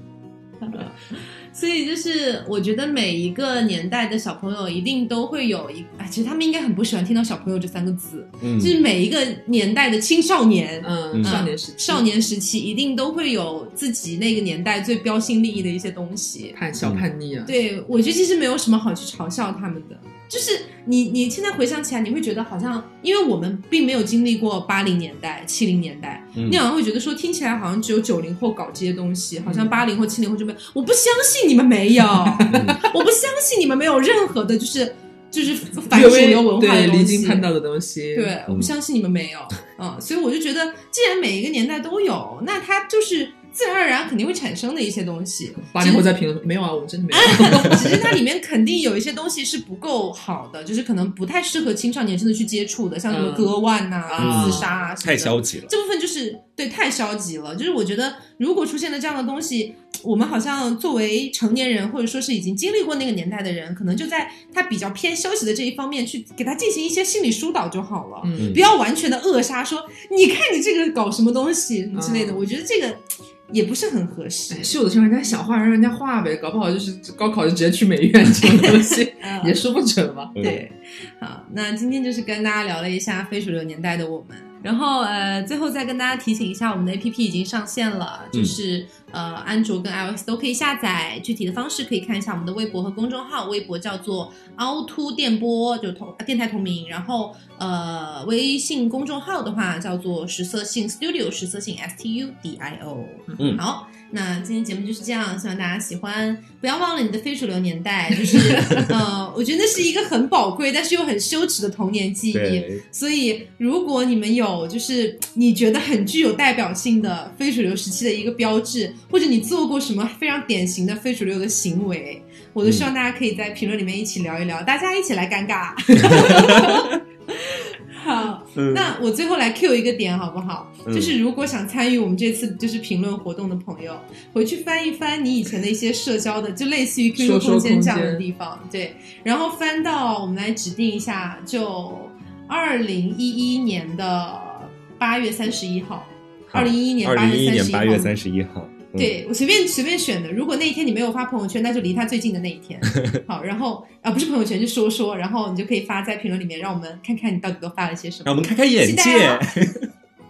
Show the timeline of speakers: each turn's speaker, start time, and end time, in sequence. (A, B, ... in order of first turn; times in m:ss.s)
0:00.6-0:01.0 A
0:01.5-0:16.6 A
0:08.4-0:08.8 B
0:10.8-0:12.0 C
0:11.1-0:11.4 B
0:16.5-0:17.5 C
0:17.4-0:37.4 A
0:26.4-0:26.6 B
0:29.4-0:29.7 C
0:32.2-0:32.8 C
0:32.5-0:32.8 B
0:35.9-0:38.3 C
0:38.1-0:46.1 A
0:45.7-0:47.9 C
0:47.1-1:14.7 A
0:47.7-0:47.9 B
0:53.1-0:53.5 C
0:54.1-0:54.7 C
0:54.2-0:55.7 B
1:08.2-1:08.6 C
1:11.9-1:12.4 C
1:14.5-1:20.5 C
1:19.2-1:19.6 A
1:20.3-1:20.6 B
1:20.4-2:28.1 A
1:52.3-1:52.8 B
2:06.0-2:07.0 B
2:06.3-2:06.6 C
2:08.5-2:08.9 B
2:10.8-2:11.2 B
2:17.2-2:18.2 C
2:26.5-2:29.1 B
2:29.0-2:39.4 A
2:38.2-2:39.8 B